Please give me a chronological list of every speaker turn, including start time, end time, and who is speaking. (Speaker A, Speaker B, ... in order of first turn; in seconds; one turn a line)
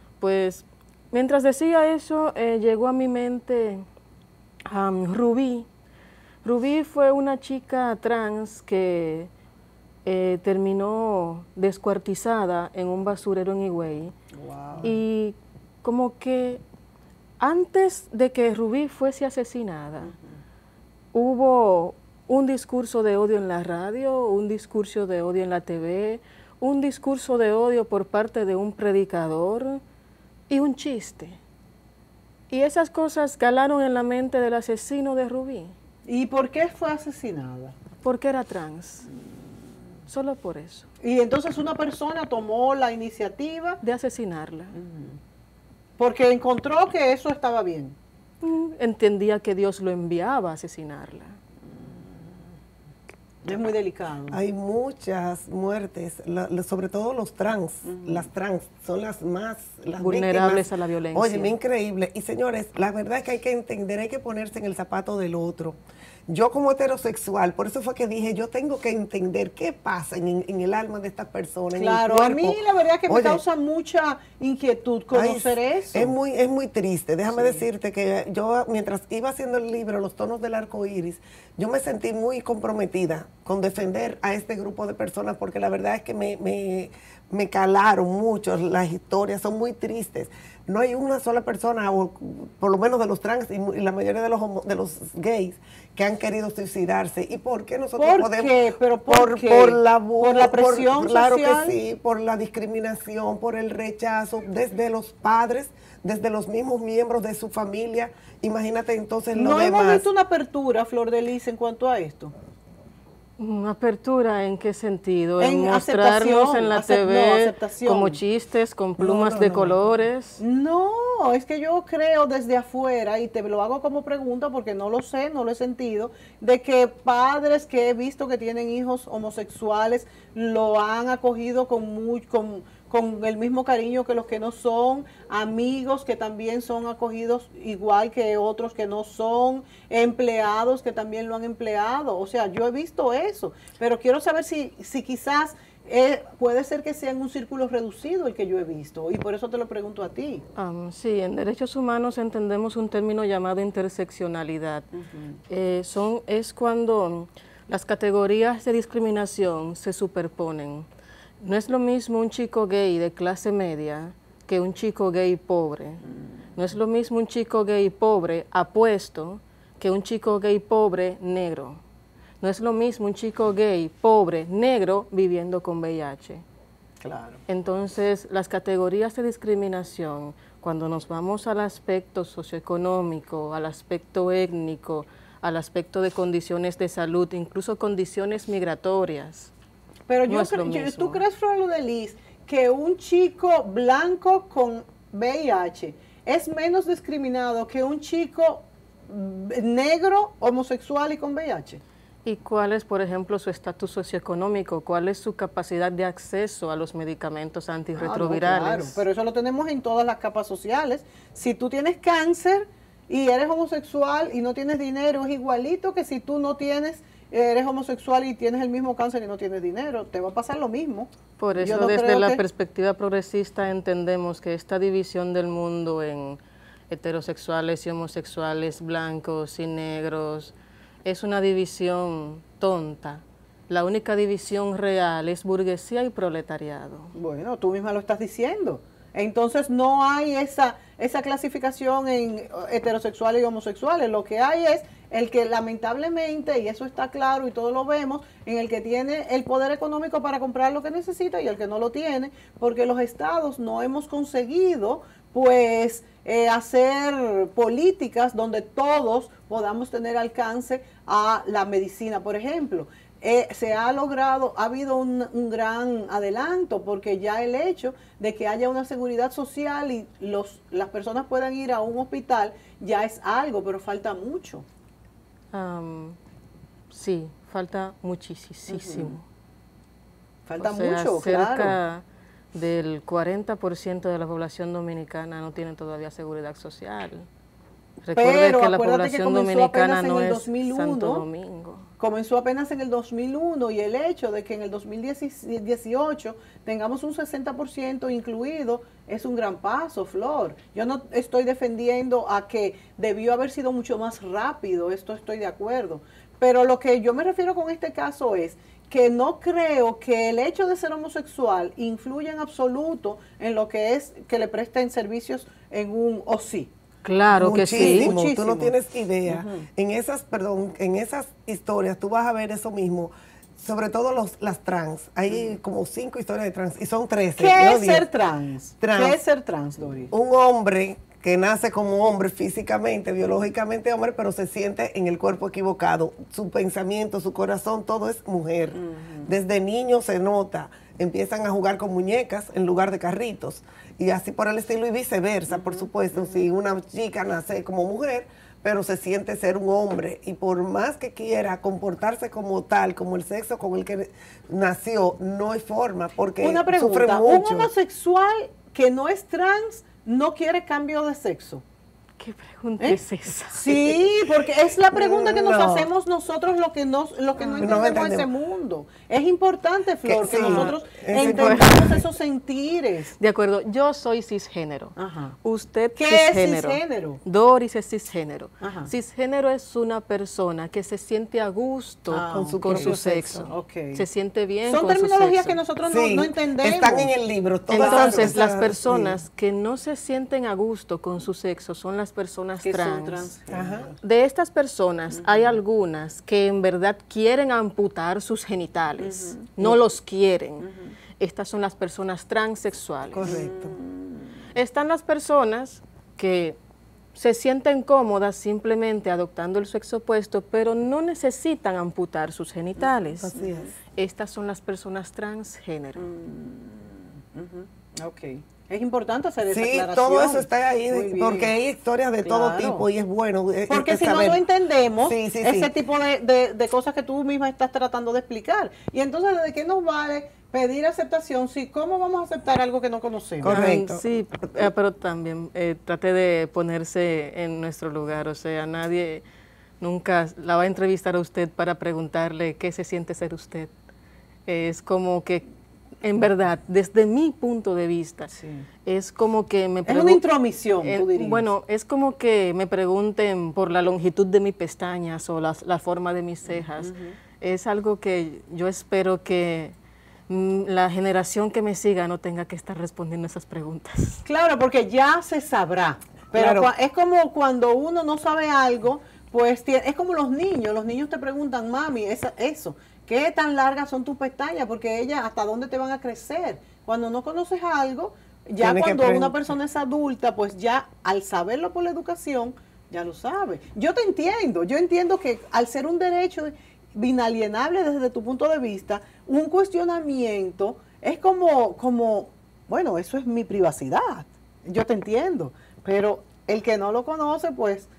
Speaker A: 0.2-3.8
Speaker A: 4.7-5.7
Speaker A: 6.4-9.3
Speaker A: 10.0-14.2
Speaker B: 14.3-14.9
Speaker A: 14.8-16.6
Speaker A: 17.4-20.1
Speaker A: 21.1-29.8
Speaker A: 30.5-31.4
Speaker A: 32.5-35.7
Speaker B: 36.0-37.8
Speaker A: 38.0-39.1
Speaker A: 40.1-40.9
Speaker B: 41.0-43.8
Speaker A: 43.8-44.7
Speaker B: 44.7-45.2
Speaker B: 46.0-48.0
Speaker A: 48.4-51.4
Speaker B: 53.4-54.4
Speaker C: 54.3-73.4
Speaker B: 57.8-58.3
Speaker A: 60.0-61.5
Speaker B: 71.8-76.1
Speaker C: 75.1-98.5
Speaker B: 77.3-77.6
Speaker B: 98.0-101.8
Speaker C: 99.1-110.1
Speaker B: 109.3-112.3
Speaker A: 113.4-120.4
Speaker B: 115.4-118.2
Speaker C: 119.0-119.7
Speaker B: 120.4-150.4
Speaker A: 150.5-154.9
Speaker B: 154.9-155.4
Speaker A: 155.5-160.8
Speaker A: 161.4-166.0
Speaker A: 166.5-171.8
Speaker A: 172.4-176.4
Speaker B: 177.0-177.4
Speaker A: 177.5-189.5
Speaker B: 190.1-201.8
Speaker A: 190.3-191.2
Speaker A: 202.2-209.0
Speaker B: 207.9-222.4
Speaker A: 221.4-237.1
Speaker B: 237.1-274.6
Speaker A: 275.5-276.2
Speaker A: 276.9-279.2
Speaker B: 278.7-279.2
Speaker B: 280.4-281.8
Speaker A: 280.6-287.3
Speaker A: 288.0-291.9
Speaker B: 288.1-291.2
Speaker B: 292.0-316.7
Speaker A: 317.0-318.1
Speaker C: 317.3-328.1
Speaker B: 317.5-318.7
Speaker B: 319.2-319.7
Speaker B: 327.4-330.1
Speaker C: 328.8-329.2
Speaker C: 330.1-357.7
Speaker B: 338.7-339.3
Speaker B: 345.5-346.3
Speaker B: 356.4-361.6
Speaker A: 362.2-363.6
Speaker B: 362.8-373.1
Speaker C: 363.6-365.9
Speaker C: 367.5-368.3
Speaker C: 370.0-372.0
Speaker A: 370.2-371.7
Speaker A: 373.2-385.6
Speaker B: 374.9-375.4
Speaker B: 376.0-377.2
Speaker B: 378.6-378.9
Speaker B: 382.1-382.9
Speaker C: 382.2-383.5
Speaker B: 383.5-384.0
Speaker B: 384.6-387.1
Speaker C: 385.8-389.2
Speaker A: 387.7-393.3
Speaker B: 387.7-388.4
Speaker B: 392.6-393.9
Speaker C: 393.5-393.9
Speaker A: 394.0-400.6
Speaker B: 395.1-395.6
Speaker B: 399.0-399.5
Speaker B: 400.6-400.9
Speaker A: 401.2-403.3
Speaker C: 403.1-403.8
Speaker B: 403.2-404.4
Speaker A: 404.5-406.6
Speaker A: 407.1-413.3
Speaker C: 413.2-413.7
Speaker B: 413.3-413.7
Speaker A: 413.9-416.0
Speaker B: 415.9-421.5
Speaker C: 419.4-424.4
Speaker B: 422.2-422.9
Speaker B: 423.7-433.6
Speaker C: 425.0-425.7
Speaker C: 433.4-434.0
Speaker A: 433.4-439.2
Speaker A: 439.8-443.7
Speaker A: 444.5-445.4
Speaker A: 446.0-450.2
Speaker B: 448.4-448.7
Speaker B: 449.9-451.4
Speaker A: 450.8-459.7
Speaker B: 456.5-457.2
Speaker A: 460.3-464.2
Speaker B: 464.2-497.9
Speaker C: 466.3-466.7
Speaker C: 478.6-479.5